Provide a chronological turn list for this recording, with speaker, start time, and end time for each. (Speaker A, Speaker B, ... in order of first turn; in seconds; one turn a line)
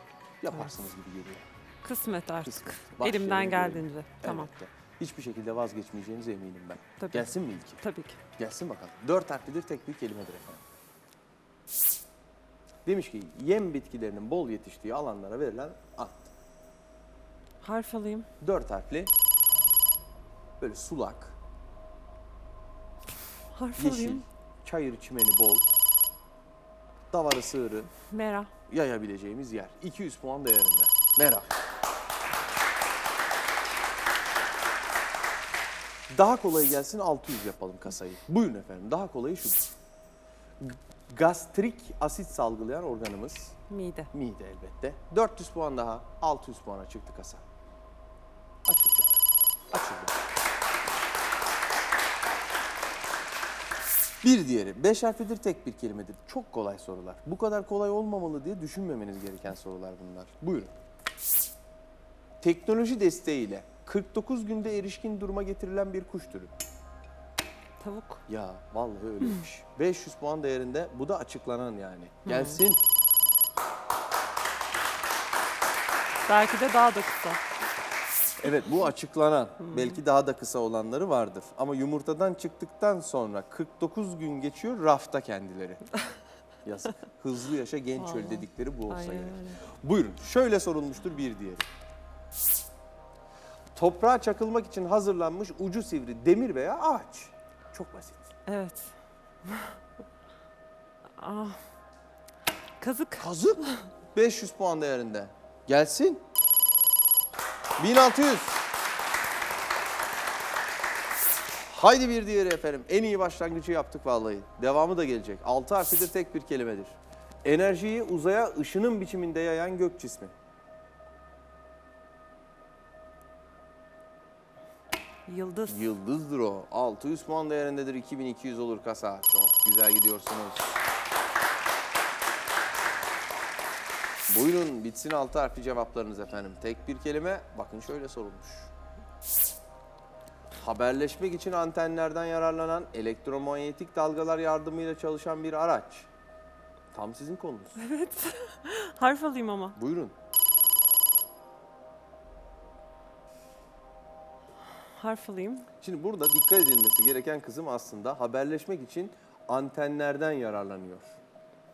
Speaker A: 0.4-1.4
Speaker B: 1.8-4.5
Speaker A: 2.4-7.8
Speaker B: 7.0-8.2
Speaker A: 8.4-10.6
Speaker A: 12.9-16.3
Speaker B: 17.6-18.3
Speaker A: 18.4-19.1
Speaker A: 20.6-21.4
Speaker B: 23.5-24.2
Speaker A: 23.8-25.7
Speaker A: 27.1-27.9
Speaker B: 28.1-28.5
Speaker A: 28.7-31.5
Speaker A: 36.1-39.7
Speaker A: 40.6-43.6
Speaker B: 43.7-44.1
Speaker A: 44.1-47.4
Speaker A: 48.7-49.2
Speaker A: 49.7-50.1
Speaker A: 54.2-60.7
Speaker A: 62.4-66.5
Speaker B: 67.8-68.2
Speaker A: 68.3-72.8
Speaker B: 72.3-72.6
Speaker B: 76.2-77.4
Speaker A: 78.4-85.8
Speaker B: 79.6-80.0
Speaker A: 86.7-91.7
Speaker B: 88.0-89.6
Speaker A: 93.8-98.3
Speaker B: 98.5-99.8
Speaker B: 101.2-101.7
Speaker B: 102.8-103.8
Speaker A: 103.2-106.2
Speaker A: 107.8-108.6
Speaker A: 111.7-120.3
Speaker B: 125.3-125.9
Speaker A: 125.7-130.7
Speaker A: 134.3-138.7
Speaker A: 140.6-146.1
Speaker A: 146.9-147.8
Speaker B: 147.8-149.8
Speaker A: 149.8-150.1
Speaker B: 154.9-155.7
Speaker A: 155.8-161.2